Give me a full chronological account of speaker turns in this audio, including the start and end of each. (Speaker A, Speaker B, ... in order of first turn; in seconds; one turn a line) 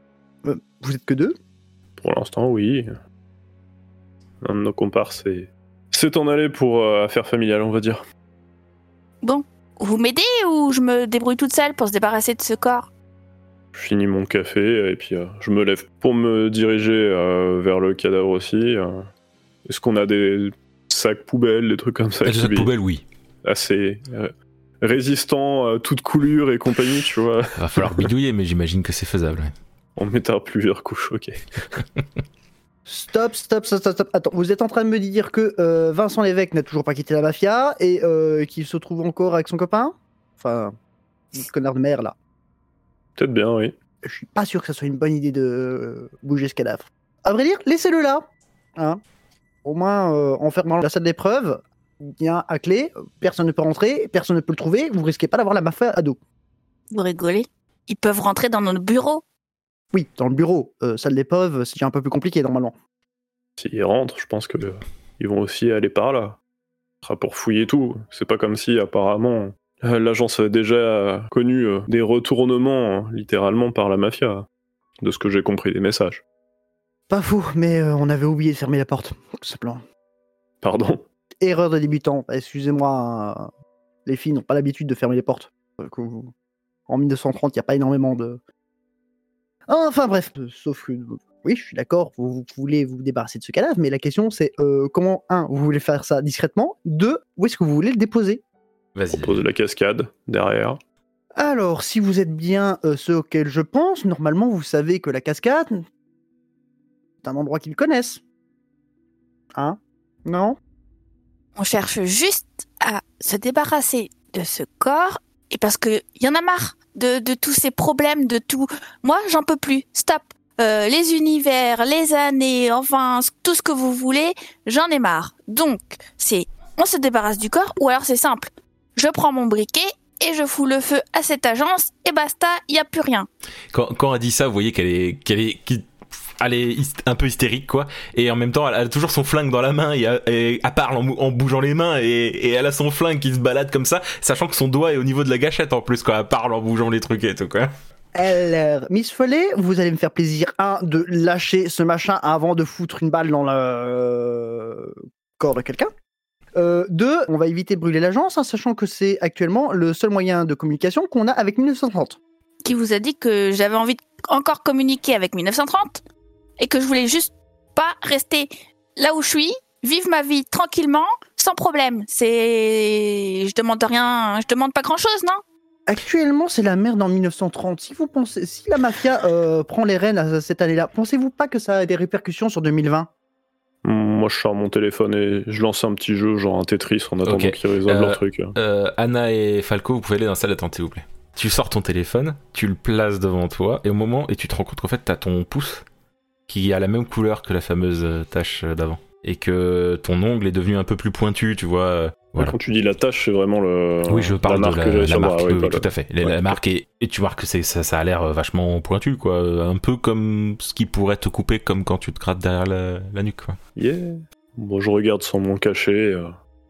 Speaker A: 0.4-1.3
Speaker B: 2.0-2.9
Speaker B: 4.4-8.0
Speaker C: 9.2-12.9
Speaker B: 13.7-19.1
Speaker B: 19.6-22.7
Speaker D: 22.2-23.0
Speaker B: 23.4-28.1
Speaker D: 27.6-29.5
Speaker B: 29.9-31.5
Speaker A: 32.9-40.7
Speaker A: 41.3-42.1
Speaker B: 43.2-43.8
Speaker A: 44.0-48.2
Speaker A: 48.8-49.0
Speaker A: 49.6-56.2
Speaker C: 56.9-59.2
Speaker A: 59.9-62.7
Speaker B: 63.6-66.4
Speaker B: 67.0-74.5
Speaker B: 75.0-76.2
Speaker A: 77.1-79.8
Speaker B: 80.6-81.0
Speaker A: 81.4-83.5
Speaker A: 84.0-86.3
Speaker A: 86.9-88.4
Speaker A: 89.7-98.4
Speaker D: 98.9-99.5
Speaker B: 99.1-100.8
Speaker A: 101.4-105.8
Speaker A: 107.2-108.2
Speaker A: 109.5-110.6
Speaker C: 111.6-133.3
Speaker D: 133.7-147.7
Speaker A: 148.1-155.9
Speaker A: 156.5-162.2
Speaker C: 162.6-166.0
Speaker C: 166.6-175.4
Speaker A: 175.9-183.1
Speaker B: 183.8-188.5
Speaker D: 187.2-195.8
Speaker D: 196.5-202.6
Speaker B: 202.4-206.6
Speaker D: 204.1-213.6
Speaker B: 213.8-216.3